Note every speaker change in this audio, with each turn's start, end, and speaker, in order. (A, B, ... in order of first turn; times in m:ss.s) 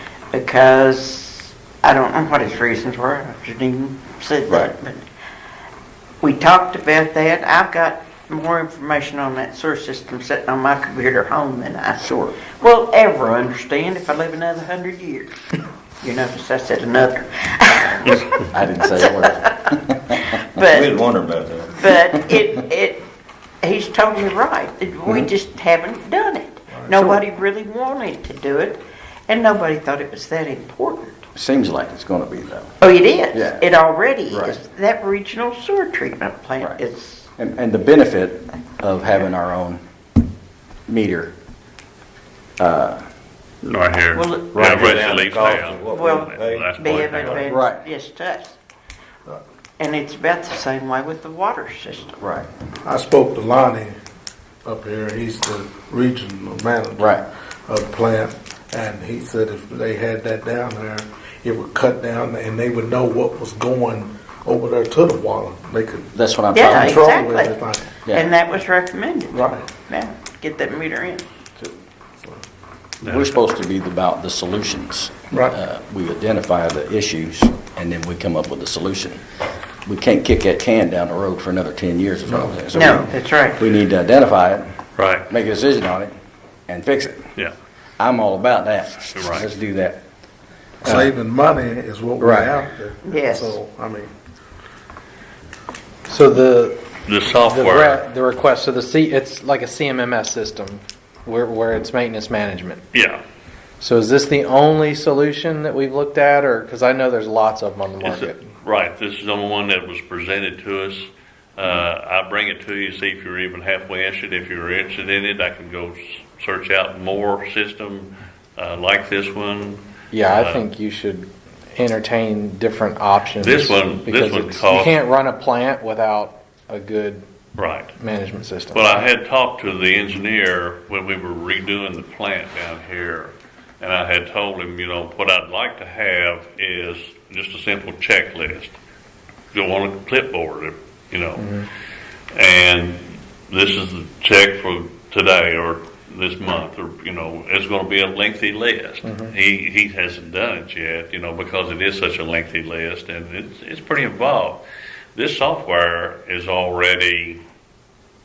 0:00.3-0:05.1 A
0:06.2-0:12.0 A
0:12.0-0:12.3 B
0:12.6-0:15.4 A
0:16.0-0:18.3 A
0:18.5-0:20.0 B
0:19.0-0:19.4 A
0:20.2-0:21.1 A
0:20.7-0:21.7 C
0:21.6-0:23.1 A
0:23.6-0:31.3 A
0:26.7-0:27.1 D
0:31.4-0:32.7 B
0:32.8-0:37.3 A
0:33.3-0:33.6 B
0:34.3-0:34.6 B
0:37.4-0:39.8 B
0:40.9-0:41.3 B
0:42.6-0:43.0 B
0:43.6-0:47.5 E
0:44.2-0:44.8 A
0:44.5-0:47.3 C
0:45.9-0:48.6 A
0:47.5-0:47.8 B
0:49.8-0:52.2 A
0:52.2-0:52.5 B
0:52.8-0:54.0 D
0:54.6-1:06.1 D
0:57.0-0:57.2 B
1:06.2-1:07.1 B
1:06.5-1:07.6 A
1:06.7-1:08.0 D
1:08.0-1:08.3 B
1:08.1-1:11.3 A
1:09.3-1:09.7 D
1:13.0-1:13.4 E
1:13.0-1:19.2 B
1:15.3-1:15.6 D
1:19.9-1:24.7 B
1:22.3-1:23.0 D
1:22.7-1:23.6 A
1:25.0-1:25.3 E
1:25.3-1:26.1 B
1:26.7-1:27.3 B
1:28.0-1:30.0 B
1:29.1-1:29.5 E
1:30.8-1:31.1 F
1:30.8-1:34.1 D
1:32.2-1:32.6 F
1:33.1-1:33.6 A
1:36.1-1:42.8 F
1:37.1-1:38.0 E
1:42.9-1:43.2 E
1:43.8-1:48.5 F
1:48.0-2:00.6 E
2:00.1-2:07.2 F
2:03.4-2:05.0 E
2:07.6-2:08.0 E
2:08.0-2:08.9 F
2:08.7-2:18.7 E
2:19.5-2:21.6 E
2:21.4-2:21.7 F
2:22.3-2:34.6 E
2:29.0-2:29.3 F
2:35.2-2:37.4 E